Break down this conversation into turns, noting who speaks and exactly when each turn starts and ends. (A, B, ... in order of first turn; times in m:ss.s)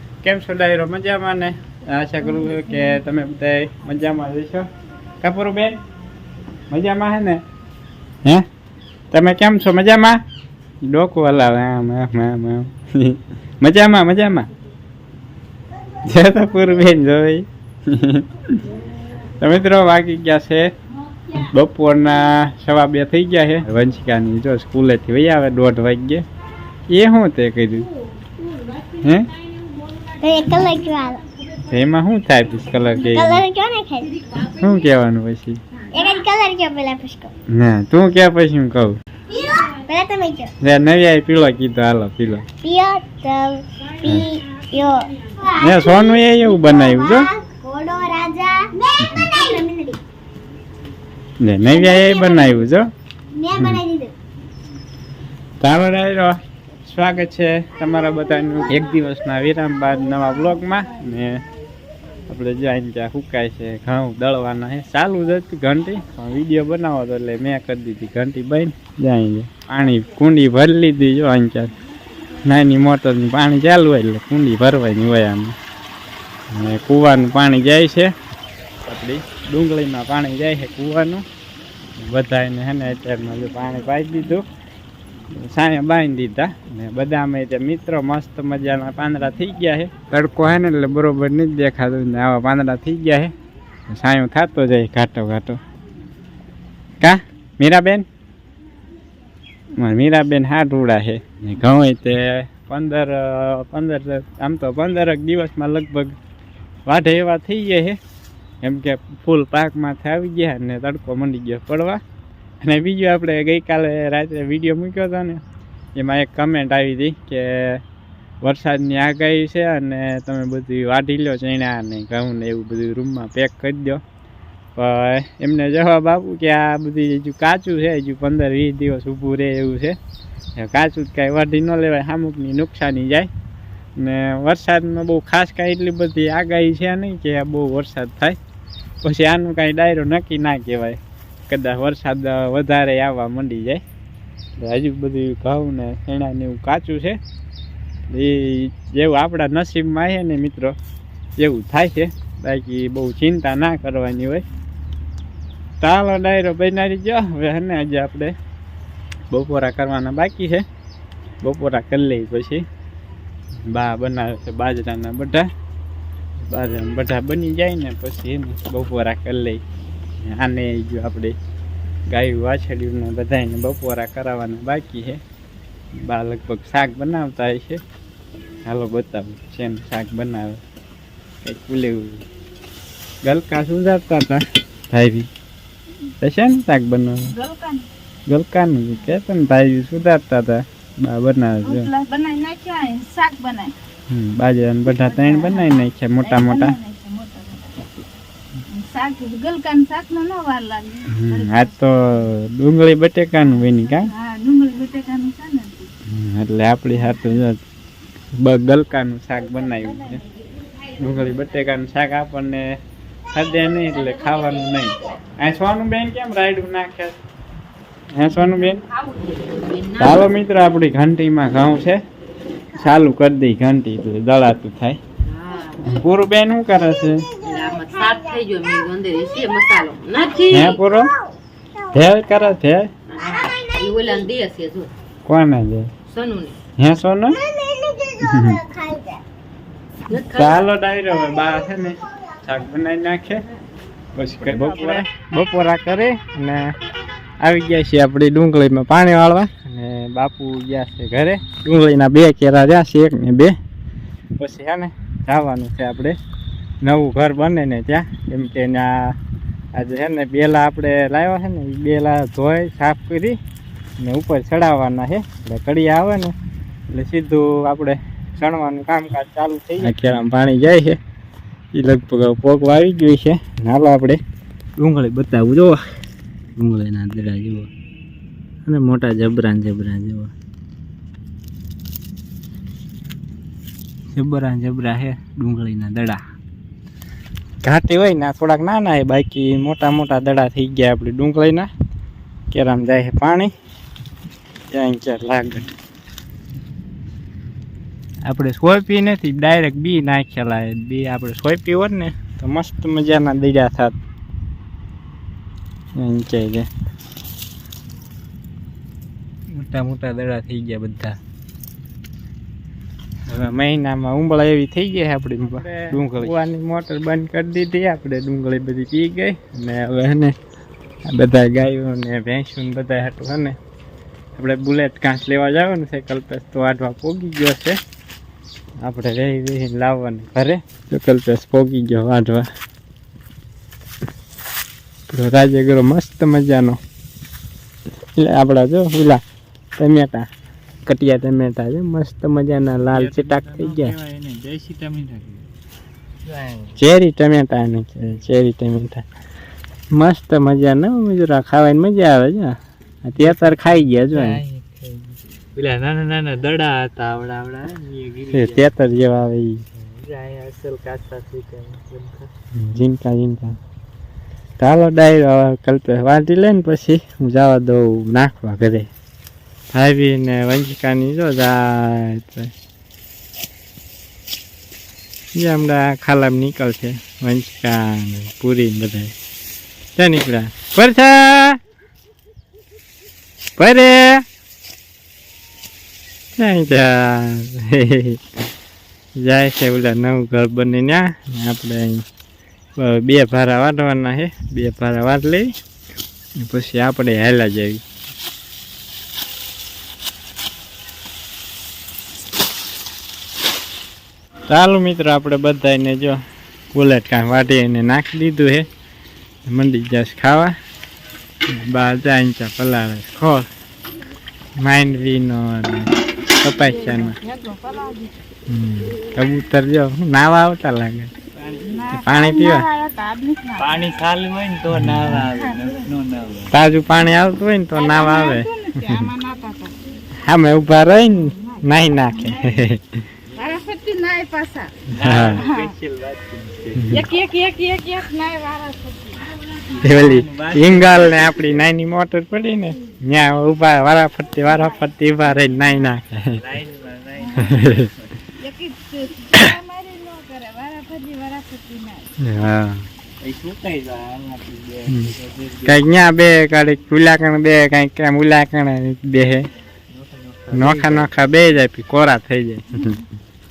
0:00.2-0:04.7 A
0:05.2-0:05.8 A
0:06.7-0:07.4 A
0:09.1-0:10.2 A
0:10.8-0:14.5 A
0:16.0-0:18.6 A
0:19.4-0:20.7 A
0:21.4-0:26.2 A
0:26.9-0:27.9 A
0:29.0-0:29.3 A
0:30.2-0:31.2 B
0:31.6-0:33.4 A
0:33.1-0:34.2 B
0:34.4-0:35.6 A
0:35.9-0:37.3 B
0:37.5-0:39.0 A
0:39.4-0:40.5 B
0:40.6-0:42.4 A
0:42.6-0:50.0 B
0:44.0-0:44.4 A
0:45.6-0:47.3 A
0:49.0-0:49.3 A
0:51.4-0:52.9 A
0:51.7-0:52.6 B
0:53.4-0:54.1 B
0:53.6-0:53.8 A
0:55.6-1:01.4 A
1:02.3-1:11.7 A
1:12.4-1:15.6 A
1:16.5-1:18.1 A
1:18.8-1:21.2 A
1:22.0-1:24.4 A
1:25.3-1:33.3 A
1:33.9-1:35.6 A
1:37.0-1:38.1 A
1:39.8-1:46.2 A
1:46.9-1:48.0 A
1:48.6-1:52.0 A
1:52.6-1:55.4 A
1:56.0-1:57.8 A
1:58.4-2:04.0 A
2:04.8-2:10.0 A
2:10.6-2:13.3 A
2:14.0-2:18.4 A
2:19.0-2:23.8 A
2:24.6-2:27.2 A
2:28.1-2:30.8 A
2:31.4-2:34.4 A
2:35.8-2:38.3 A
2:39.3-2:40.6 A
2:41.4-2:42.6 A
2:43.7-2:45.5 A
2:46.5-2:49.6 A
2:50.2-2:51.4 A
2:52.1-2:55.2 A
2:56.0-2:57.8 A
2:58.7-3:00.6 A
3:01.4-3:02.2 A
3:03.2-3:05.3 A
3:06.2-3:07.3 A
3:07.4-3:07.9 C
3:08.3-3:11.9 A
3:11.7-3:13.8 C
3:14.1-3:16.8 A
3:15.1-3:18.0 C
3:18.7-3:21.4 C
3:21.1-3:24.1 A
3:24.1-3:25.9 C
3:26.1-3:27.6 A
3:28.4-3:30.2 A
3:31.0-3:32.6 A
3:33.3-3:37.2 A
3:38.1-3:38.8 A
3:38.8-3:40.2 C
3:40.0-3:42.0 A
3:42.8-3:45.0 A
3:45.3-3:45.8 C
3:45.8-3:47.2 A
3:47.4-3:50.8 C
3:50.5-3:51.1 A
3:51.9-3:52.9 A
3:53.2-3:54.9 C
3:55.2-3:55.9 A
3:56.1-3:56.6 C
3:56.8-3:57.4 A
3:57.6-3:59.2 B
3:58.2-3:58.6 A
4:00.1-4:00.6 C
4:00.1-4:03.4 A
4:04.2-4:06.6 A
4:04.5-4:05.1 D
4:07.4-4:13.5 A
4:14.4-4:16.2 A
4:16.8-4:19.2 A
4:19.8-4:23.4 A
4:24.0-4:26.3 A
4:26.9-4:31.0 A
4:31.7-4:34.2 A
4:34.8-4:35.8 A
4:36.6-4:37.7 A
4:38.7-4:40.3 A
4:44.2-4:46.2 A
4:47.6-4:51.7 A
4:52.5-4:53.5 A
4:54.7-4:55.7 A
4:58.3-5:04.0 A
5:06.0-5:06.7 A
5:09.5-5:11.1 D
5:10.2-5:11.0 A
5:13.4-5:20.3 A
5:15.5-5:16.3 D
5:21.1-5:23.6 A
5:24.4-5:27.8 A
5:28.8-5:32.5 A
5:35.1-5:36.8 A
5:38.2-5:39.2 A
5:39.8-5:40.3 A
5:40.9-5:44.0 A
5:42.9-5:45.5 D
5:46.3-5:46.8 D
5:46.8-5:49.0 A
5:49.9-5:54.4 A
5:53.2-5:58.7 D
5:58.3-5:59.6 A
5:59.8-6:02.3 D
6:02.6-6:03.6 A
6:04.6-6:08.9 A
6:09.7-6:12.5 A
6:15.4-6:19.1 A
6:20.0-6:21.6 A
6:23.6-6:24.2 A
6:26.4-6:28.2 A
6:29.2-6:32.0 A
6:32.8-6:35.5 A
6:36.4-6:37.8 A
6:44.5-6:46.2 A
6:46.7-6:48.7 A
6:49.5-6:50.6 A
6:51.5-6:53.5 A
6:54.6-6:55.9 A
6:56.4-6:57.2 A
6:56.8-6:58.1 C
6:58.5-7:01.1 A
7:01.4-7:02.0 D
7:01.7-7:03.7 C
7:01.9-7:02.7 A
7:03.6-7:06.5 D
7:04.7-7:05.3 A
7:05.3-7:05.8 C
7:06.5-7:09.1 A
7:07.8-7:09.8 C
7:10.2-7:13.0 A
7:13.4-7:14.8 C
7:14.9-7:17.1 D
7:14.9-7:15.4 A
7:15.4-7:15.7 C
7:16.8-7:17.1 A
7:16.9-7:19.2 C
7:19.7-7:21.6 D
7:19.8-7:26.4 A
7:26.4-7:28.1 D
7:27.4-7:27.9 A
7:28.4-7:32.1 C
7:32.2-7:32.8 A
7:33.2-7:35.8 D
7:35.6-7:39.5 A
7:39.9-7:41.1 D
7:40.5-7:43.0 A